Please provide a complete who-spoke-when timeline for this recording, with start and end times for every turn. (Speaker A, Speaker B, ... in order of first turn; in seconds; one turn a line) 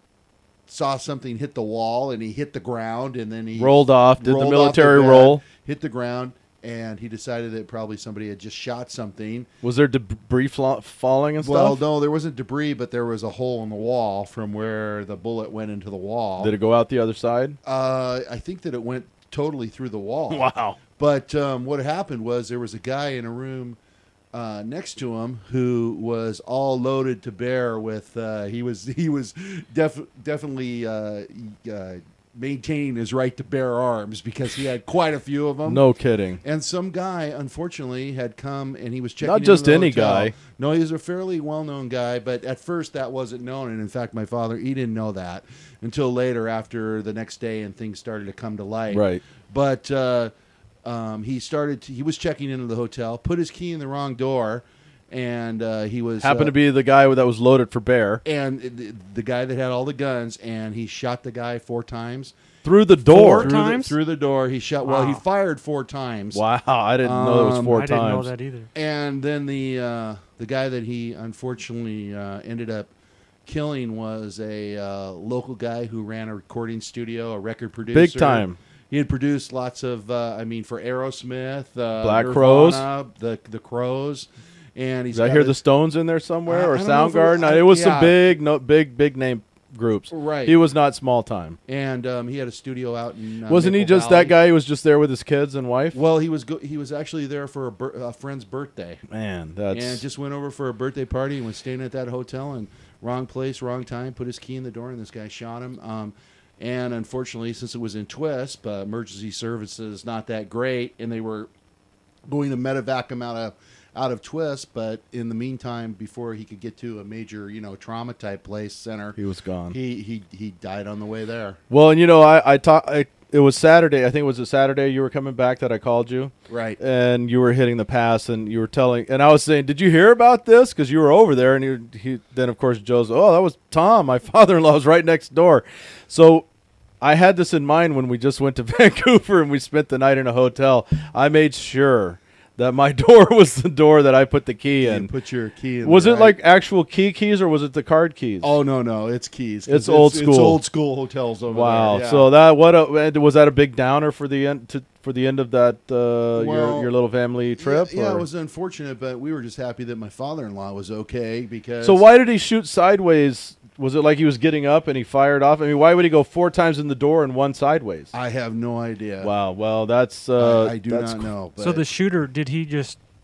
Speaker A: 0.7-9.5
Speaker B: 3.6-5.4
Speaker B: 9.6-11.8
Speaker A: 11.4-16.5
Speaker B: 16.4-17.6
Speaker A: 17.6-23.8
Speaker B: 20.3-20.8
Speaker A: 24.3-35.8
Speaker B: 35.7-36.4
Speaker A: 36.4-50.3
Speaker B: 39.2-40.3
Speaker B: 48.9-49.2
Speaker A: 50.9-56.5
Speaker B: 56.2-58.2
Speaker A: 58.2-62.3
Speaker B: 62.6-63.6
Speaker C: 63.1-64.0
Speaker A: 63.1-66.4
Speaker C: 64.8-65.2
Speaker B: 66.3-68.3
Speaker A: 67.0-67.8
Speaker C: 67.7-68.7
Speaker A: 68.8-72.9
Speaker A: 73.5-85.6
Speaker B: 77.9-78.6
Speaker B: 82.0-82.9
Speaker B: 85.1-91.6
Speaker A: 86.5-88.2
Speaker A: 90.1-90.6
Speaker A: 91.7-94.4
Speaker B: 93.5-96.0
Speaker A: 95.9-99.0
Speaker B: 99.1-100.0
Speaker A: 99.7-111.5
Speaker A: 112.3-119.2
Speaker B: 119.2-119.8
Speaker A: 119.7-121.6
Speaker B: 121.7-136.5
Speaker A: 126.5-126.8
Speaker B: 137.0-145.1
Speaker A: 144.8-146.4
Speaker B: 145.8-148.5
Speaker A: 148.4-152.3
Speaker B: 149.7-150.6
Speaker B: 151.5-158.3
Speaker A: 156.3-156.9
Speaker A: 157.6-162.0
Speaker B: 161.8-168.1
Speaker A: 168.1-169.3
Speaker B: 169.2-171.3
Speaker A: 170.4-171.8
Speaker C: 171.6-173.0